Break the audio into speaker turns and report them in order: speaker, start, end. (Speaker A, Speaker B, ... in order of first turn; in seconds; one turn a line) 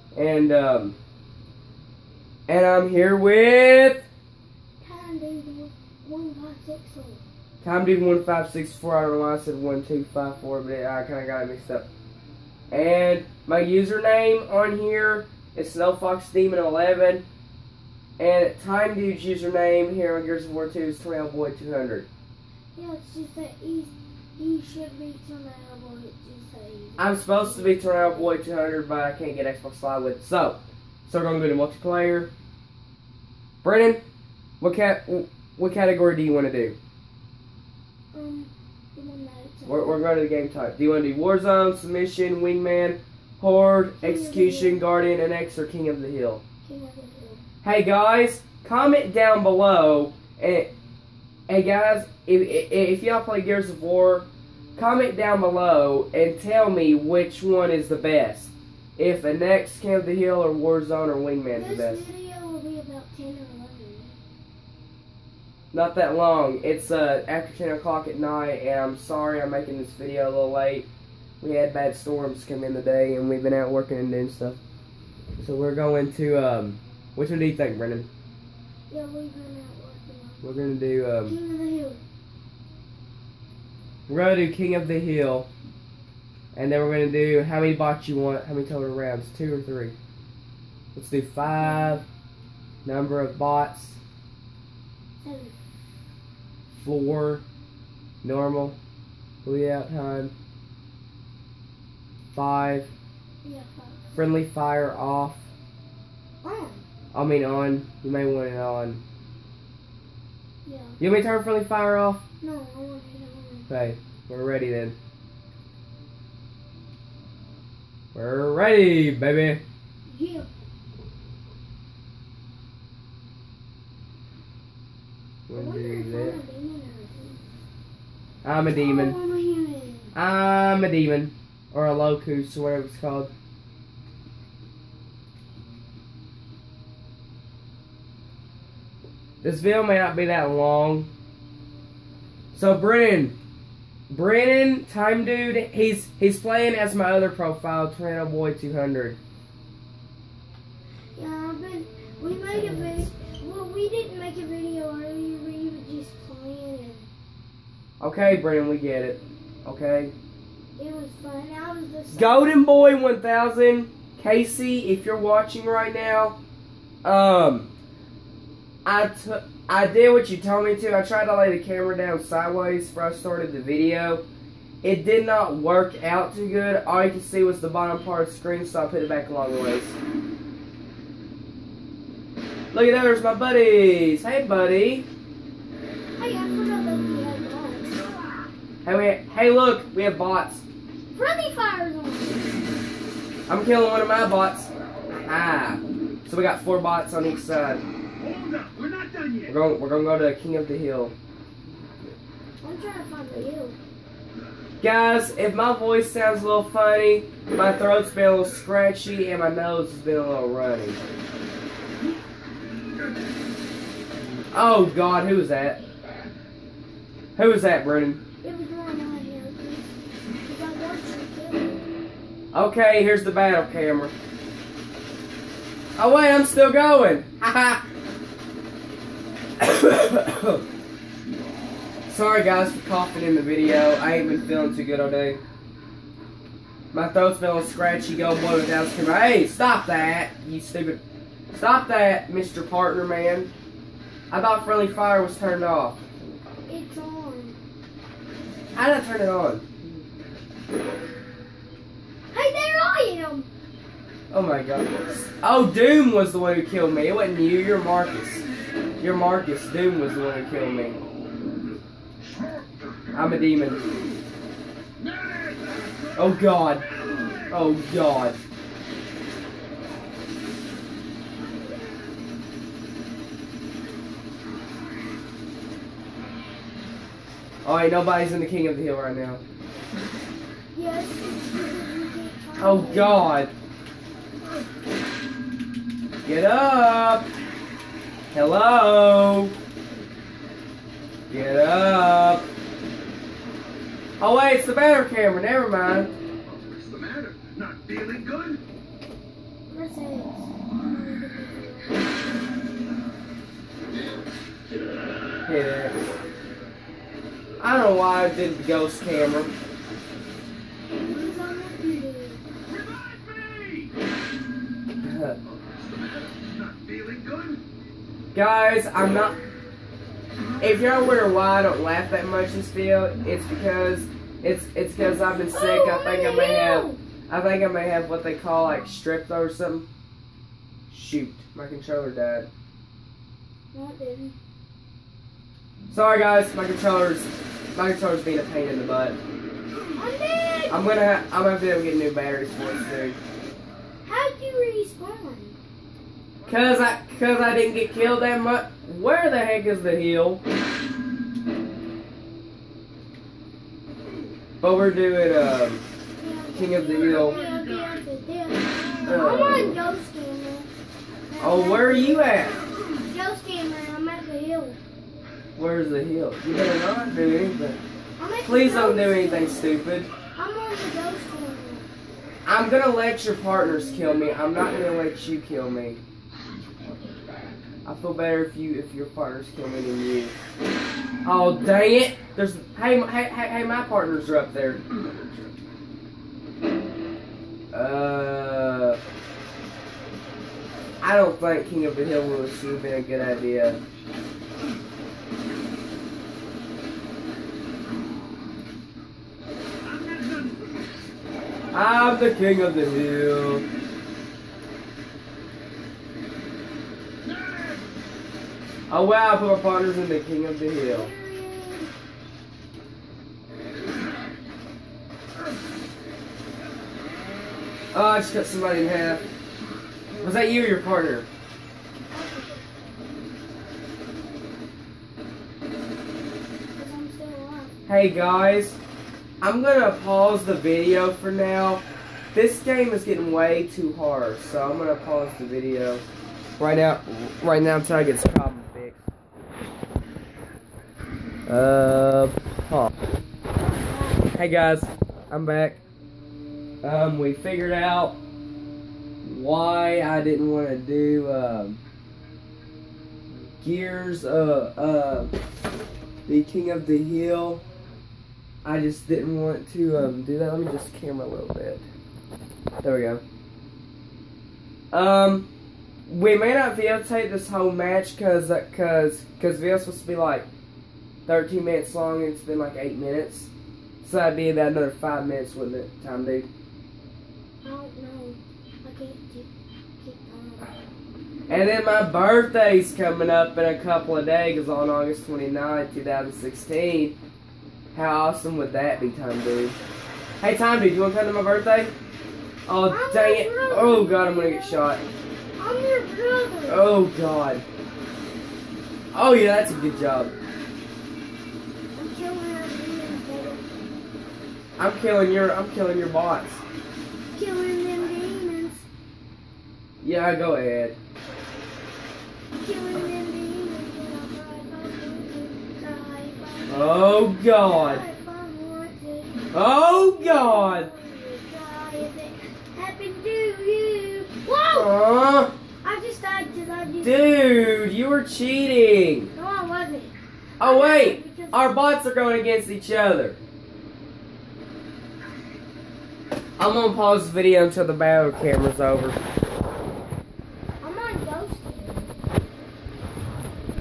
Speaker A: 0.1-1.0
Speaker A: 2.5-4.1
Speaker B: 4.8-7.2
Speaker A: 7.6-11.9
Speaker A: 12.7-17.2
Speaker A: 18.2-22.1
Speaker B: 22.8-28.2
Speaker A: 27.0-32.3
Speaker A: 33.6-34.0
Speaker A: 34.6-36.8
Speaker B: 38.1-40.1
Speaker A: 39.7-46.4
Speaker B: 44.0-44.9
Speaker B: 46.6-47.4
Speaker A: 47.6-50.7
Speaker A: 51.5-62.1
Speaker B: 61.5-64.2
Speaker A: 65.7-70.9
Speaker A: 71.4-74.6
Speaker A: 75.4-78.1
Speaker B: 78.9-80.4
Speaker A: 80.4-81.3
Speaker B: 81.2-82.0
Speaker A: 84.1-85.5
Speaker A: 86.5-90.0
Speaker A: 91.0-92.0
Speaker B: 91.6-92.0
Speaker A: 92.8-94.0
Speaker B: 95.2-95.6
Speaker A: 96.7-97.4
Speaker A: 98.2-98.8
Speaker A: 99.4-100.3
Speaker A: 102.3-102.9
Speaker B: 103.4-104.1
Speaker A: 104.2-105.5
Speaker B: 106.4-106.8
Speaker A: 107.1-109.0
Speaker B: 110.7-111.0
Speaker A: 111.0-112.2
Speaker B: 112.4-113.7
Speaker A: 113.7-115.0
Speaker A: 118.1-119.6
Speaker B: 120.1-120.5
Speaker A: 125.5-126.4
Speaker B: 125.5-127.4
Speaker A: 128.4-129.2
Speaker B: 128.8-130.1
Speaker A: 130.2-133.3
Speaker A: 139.4-141.1
Speaker A: 142.5-143.4
Speaker A: 144.1-149.2
Speaker B: 151.2-157.1
Speaker A: 152.5-153.1
Speaker A: 158.0-160.1
Speaker B: 160.8-162.6
Speaker A: 162.1-166.4
Speaker A: 167.0-167.7
Speaker A: 168.8-174.2
Speaker A: 174.8-180.0
Speaker A: 182.7-185.1
Speaker B: 186.2-187.9
Speaker A: 188.8-190.7
Speaker B: 191.2-192.4
Speaker A: 193.5-194.7
Speaker A: 195.2-197.8
Speaker C: 198.3-199.4
Speaker A: 199.5-201.2
Speaker B: 202.6-203.8
Speaker A: 204.8-211.0
Speaker A: 214.5-215.8
Speaker A: 217.4-218.2
Speaker B: 218.4-219.9
Speaker B: 220.4-221.8
Speaker A: 222.5-224.1
Speaker A: 226.0-227.8
Speaker A: 229.6-230.6
Speaker A: 232.1-235.4
Speaker A: 236.9-241.0
Speaker A: 241.5-243.5
Speaker A: 244.3-246.1
Speaker B: 246.7-247.6
Speaker A: 248.8-249.8
Speaker B: 252.3-253.5
Speaker A: 254.3-258.4
Speaker A: 259.0-261.0
Speaker A: 263.1-263.8
Speaker C: 265.1-265.8
Speaker A: 266.1-266.9
Speaker A: 267.5-268.4
Speaker A: 277.6-279.4
Speaker B: 280.7-283.3
Speaker A: 282.6-283.5
Speaker A: 286.2-287.3
Speaker A: 288.3-289.5
Speaker A: 291.3-292.4
Speaker A: 294.2-296.1
Speaker C: 296.7-298.6
Speaker B: 299.7-302.5
Speaker A: 305.5-306.2
Speaker A: 307.6-309.6
Speaker B: 311.0-312.4
Speaker C: 312.8-313.9
Speaker A: 315.0-315.4
Speaker C: 316.1-317.6
Speaker A: 318.3-319.4
Speaker A: 320.6-329.9
Speaker B: 325.5-327.0
Speaker A: 330.9-332.5
Speaker B: 333.7-334.4
Speaker A: 335.9-339.2
Speaker B: 340.0-340.8
Speaker A: 340.7-343.2
Speaker B: 344.1-345.6
Speaker A: 346.5-350.4
Speaker A: 354.6-355.8
Speaker B: 356.2-360.7
Speaker A: 356.6-357.4
Speaker A: 359.1-359.8
Speaker B: 361.3-364.8
Speaker A: 361.4-362.6
Speaker A: 365.6-367.8
Speaker B: 368.2-369.7
Speaker A: 368.4-370.1
Speaker B: 370.4-371.9
Speaker A: 372.4-376.0
Speaker A: 377.9-380.4
Speaker A: 381.2-385.4
Speaker A: 387.7-389.0
Speaker A: 391.0-393.8
Speaker C: 399.9-400.5
Speaker A: 401.7-403.7
Speaker A: 408.9-411.1
Speaker B: 410.9-411.9
Speaker A: 417.9-419.3
Speaker A: 420.2-421.3
Speaker B: 422.1-422.6
Speaker B: 426.8-427.7
Speaker A: 427.9-428.8
Speaker A: 429.4-436.0
Speaker A: 436.6-439.0
Speaker A: 441.5-442.9
Speaker B: 443.6-444.3
Speaker A: 444.3-445.8
Speaker A: 446.8-448.2
Speaker A: 449.2-451.8
Speaker A: 453.6-455.4
Speaker A: 456.3-457.6
Speaker A: 458.6-461.9
Speaker A: 462.8-463.2
Speaker A: 464.9-465.5
Speaker A: 466.1-470.5
Speaker A: 471.3-476.5
Speaker B: 477.6-480.8
Speaker A: 481.5-487.2
Speaker A: 487.9-489.8
Speaker A: 490.4-491.9
Speaker A: 492.7-495.0
Speaker B: 492.9-494.9
Speaker B: 495.6-496.9
Speaker A: 496.7-497.6
Speaker A: 499.1-500.3
Speaker B: 501.9-503.7
Speaker A: 504.8-506.6
Speaker B: 507.3-508.9
Speaker A: 510.0-511.0
Speaker B: 512.6-516.8
Speaker A: 516.7-518.0
Speaker B: 517.4-524.9
Speaker A: 519.5-520.9
Speaker A: 524.7-525.5
Speaker B: 525.8-527.5
Speaker A: 527.0-529.3
Speaker B: 529.4-531.7
Speaker A: 530.6-533.4
Speaker A: 536.6-539.2
Speaker B: 540.8-542.1